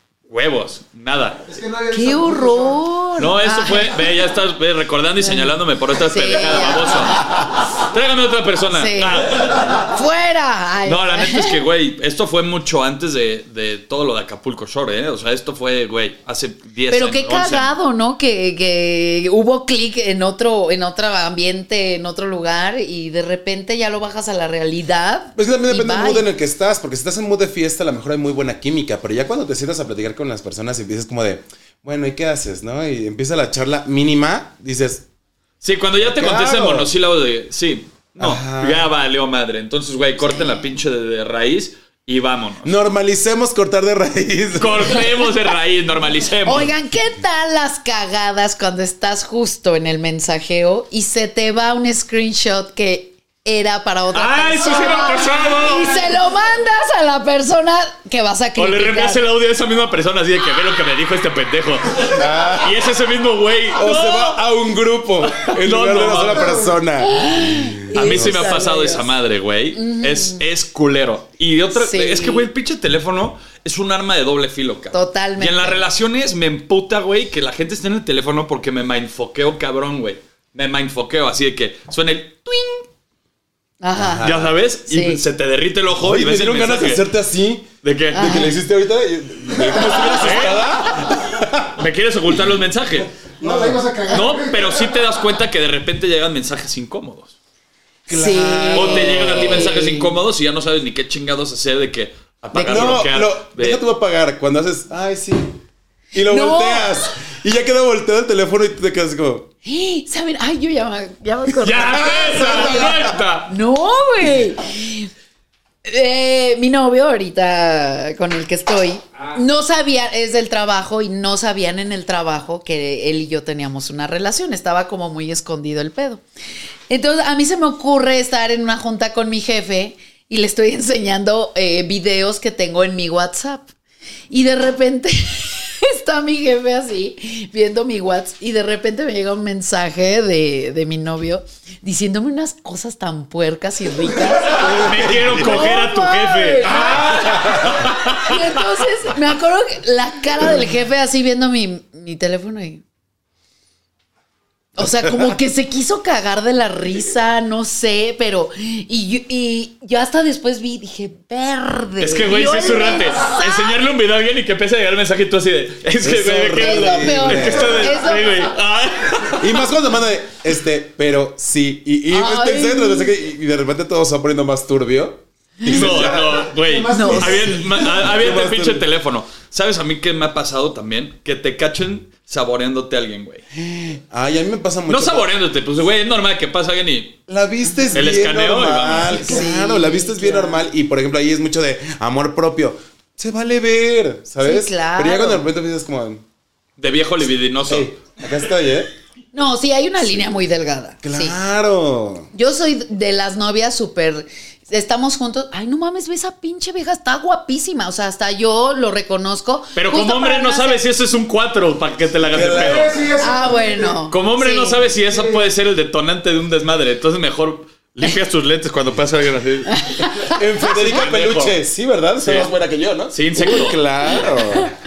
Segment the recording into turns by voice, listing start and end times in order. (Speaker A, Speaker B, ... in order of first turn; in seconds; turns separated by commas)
Speaker A: 0.3-1.4, Speaker B: 1.5-2.8, Speaker C: 1.9-4.0, Speaker A: 3.2-9.9, Speaker C: 5.2-7.5, Speaker C: 8.7-11.6, Speaker A: 10.9-17.7, Speaker C: 16.9-26.3, Speaker D: 25.4-35.0, Speaker A: 35.6-42.8, Speaker D: 36.0-36.9, Speaker D: 38.2-38.9, Speaker C: 40.2-40.7, Speaker D: 42.6-45.1, Speaker A: 44.6-46.7, Speaker C: 46.4-59.2, Speaker A: 54.1-56.1, Speaker A: 58.6-64.4, Speaker D: 62.0-62.9, Speaker D: 63.7-68.4, Speaker A: 65.2-66.6, Speaker B: 66.4-66.6, Speaker C: 67.0-69.1, Speaker A: 67.9-82.9, Speaker C: 69.8-70.4, Speaker C: 71.8-72.5, Speaker C: 74.9-75.8, Speaker C: 83.8-84.3, Speaker D: 83.9-84.5, Speaker A: 84.2-87.1, Speaker C: 84.9-85.2, Speaker D: 85.9-91.8, Speaker A: 87.8-88.4, Speaker C: 88.1-88.5, Speaker A: 89.9-90.8, Speaker A: 91.8-93.1, Speaker B: 93.4-95.0, Speaker D: 93.4-93.8, Speaker A: 94.1-97.3, Speaker D: 98.1-99.7, Speaker C: 98.1-100.1, Speaker A: 98.7-103.8, Speaker C: 102.6-102.9, Speaker D: 102.6-105.6, Speaker D: 106.1-109.5, Speaker C: 106.2-107.1, Speaker C: 109.6-115.1, Speaker A: 111.6-113.5, Speaker D: 111.8-113.1, Speaker C: 115.8-126.2, Speaker C: 126.9-133.7, Speaker C: 134.3-152.8, Speaker D: 144.6-145.7, Speaker A: 144.6-148.6, Speaker D: 146.9-147.9, Speaker C: 154.8-163.8, Speaker A: 162.0-169.6, Speaker D: 166.0-167.9, Speaker C: 166.5-168.5, Speaker D: 169.3-176.5, Speaker C: 172.1-173.1, Speaker A: 175.7-183.4, Speaker B: 176.0-177.7, Speaker C: 176.9-177.6, Speaker D: 177.0-178.9, Speaker D: 183.5-185.3, Speaker A: 184.9-187.2, Speaker D: 187.3-196.2, Speaker A: 187.9-189.3, Speaker C: 189.1-190.6, Speaker C: 194.4-195.5, Speaker A: 196.8-198.0, Speaker D: 197.7-198.9, Speaker C: 199.3-201.4, Speaker D: 201.0-202.3, Speaker C: 202.3-210.8, Speaker A: 209.8-212.9, Speaker D: 212.3-212.9, Speaker B: 212.4-214.0, Speaker C: 213.2-214.8, Speaker A: 214.1-220.1, Speaker B: 214.9-215.4, Speaker C: 219.7-220.4, Speaker D: 220.3-224.7, Speaker A: 220.6-221.6, Speaker A: 222.2-222.5, Speaker A: 223.1-223.8